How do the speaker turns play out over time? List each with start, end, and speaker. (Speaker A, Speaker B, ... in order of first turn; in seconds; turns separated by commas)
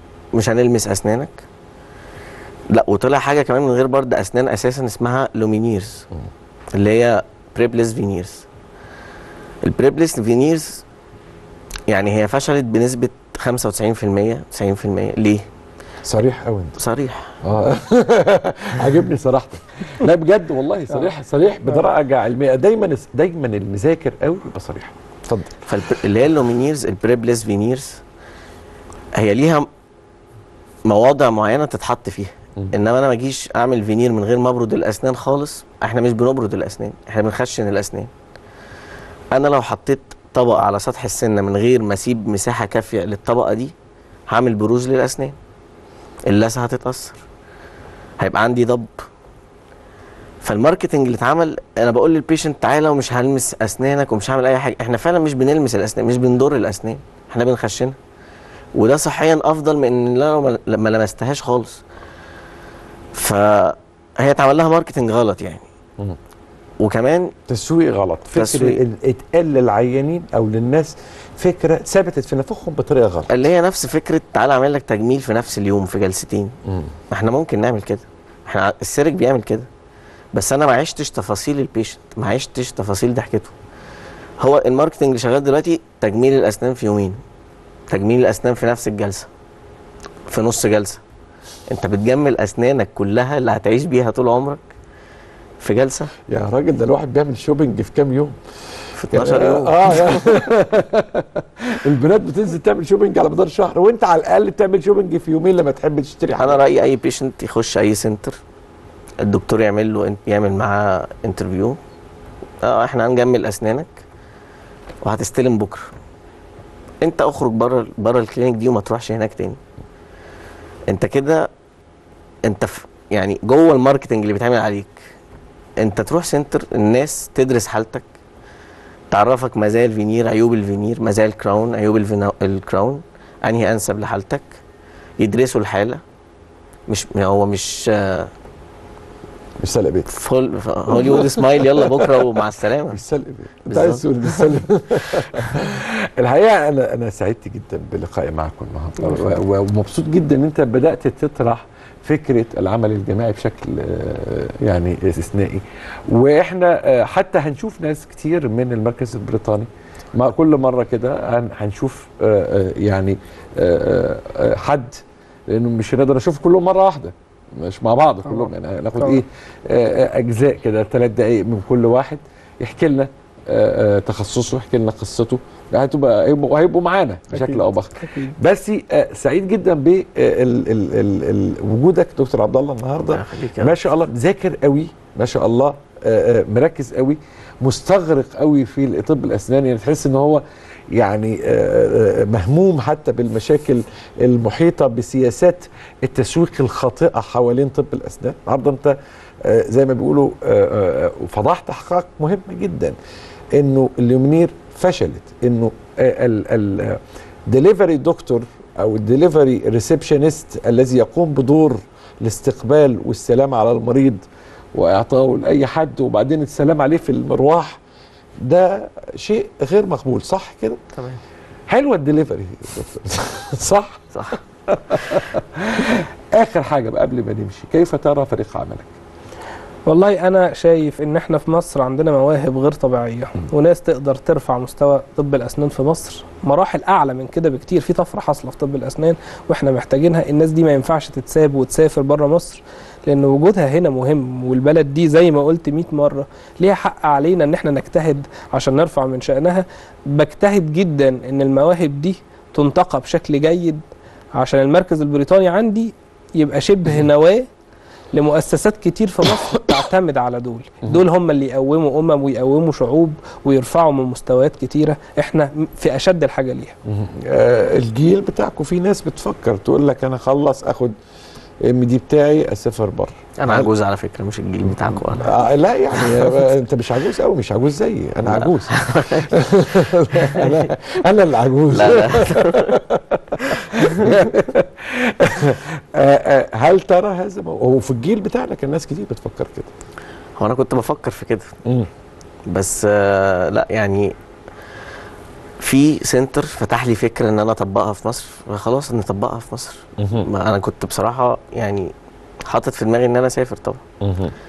Speaker A: 0.3-1.4, Speaker A: 2.7-6.0, Speaker A: 6.7-8.4, Speaker A: 9.6-10.8, Speaker A: 11.9-15.4, Speaker B: 16.1-16.8, Speaker A: 16.8-17.3, Speaker B: 17.4-25.6, Speaker A: 25.7-28.0, Speaker A: 29.1-29.7, Speaker A: 30.9-38.1, Speaker A: 39.3-43.7, Speaker A: 44.3-45.4, Speaker A: 46.3-47.2, Speaker A: 48.2-48.9, Speaker A: 50.4-58.0, Speaker A: 58.8-61.8, Speaker A: 63.1-65.7, Speaker A: 66.8-67.3, Speaker B: 67.5-73.3, Speaker A: 68.3-68.8, Speaker A: 73.3-76.5, Speaker B: 76.7-77.0, Speaker A: 77.1-79.7, Speaker A: 80.3-83.5, Speaker A: 84.4-87.2, Speaker A: 87.9-89.3, Speaker A: 90.3-91.0, Speaker A: 91.7-94.6, Speaker A: 95.6-96.1, Speaker B: 96.3-98.4, Speaker A: 99.0-100.3, Speaker B: 99.1-106.6, Speaker A: 106.4-108.4, Speaker A: 109.2-111.8, Speaker A: 112.6-114.0, Speaker A: 115.0-115.8, Speaker A: 117.0-119.6, Speaker A: 120.9-121.5, Speaker A: 122.5-125.0, Speaker A: 125.8-128.1, Speaker A: 129.1-134.5, Speaker A: 135.2-136.0, Speaker A: 136.9-138.3, Speaker B: 139.6-140.1, Speaker A: 140.1-143.0, Speaker B: 140.9-142.2, Speaker B: 142.9-202.9, Speaker A: 143.7-144.6, Speaker A: 145.2-145.4, Speaker C: 168.3-169.2, Speaker C: 177.3-178.3, Speaker A: 183.1-183.8, Speaker B: 203.6-214.2, Speaker B: 214.8-217.8, Speaker B: 218.4-220.8, Speaker A: 221.0-221.2, Speaker B: 221.7-224.1, Speaker A: 224.1-224.4, Speaker B: 224.7-228.9, Speaker C: 229.9-253.8, Speaker C: 254.4-257.5, Speaker C: 258.1-266.8, Speaker B: 266.9-271.0, Speaker B: 271.6-273.7, Speaker A: 273.4-275.4, Speaker B: 275.2-289.7, Speaker A: 275.9-276.5, Speaker A: 278.3-280.6, Speaker A: 281.7-282.8, Speaker A: 283.7-284.2, Speaker A: 290.4-291.5, Speaker A: 292.5-294.1, Speaker A: 295.6-301.9, Speaker B: 300.0-300.3, Speaker A: 302.4-303.8, Speaker B: 304.0-304.3